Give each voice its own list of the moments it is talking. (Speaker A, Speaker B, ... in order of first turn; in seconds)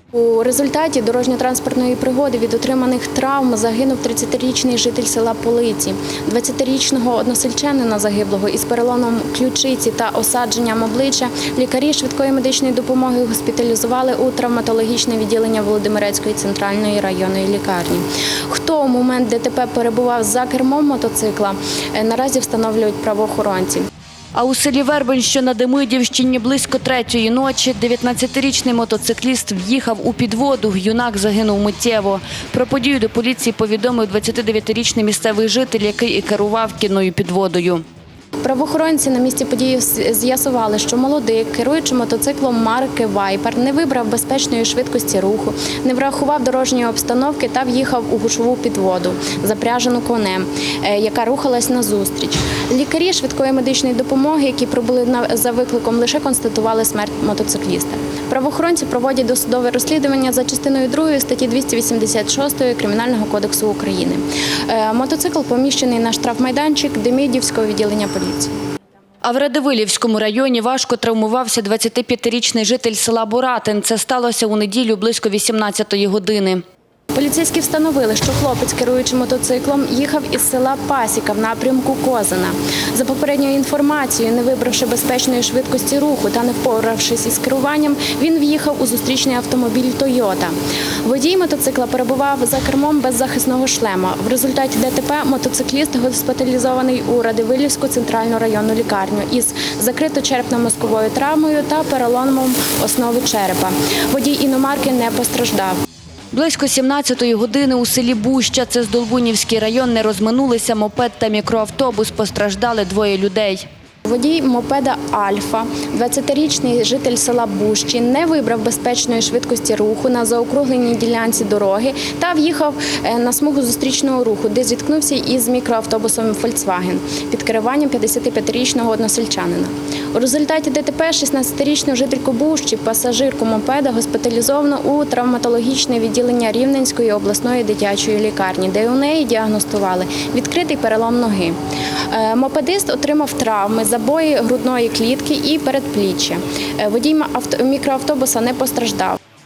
Speaker A: 0.1-23.9, 38.4-68.5, 77.1-105.8, 114.0-141.6, 142.1-149.2
Speaker B: 24.3-37.8, 69.2-76.6, 106.3-113.7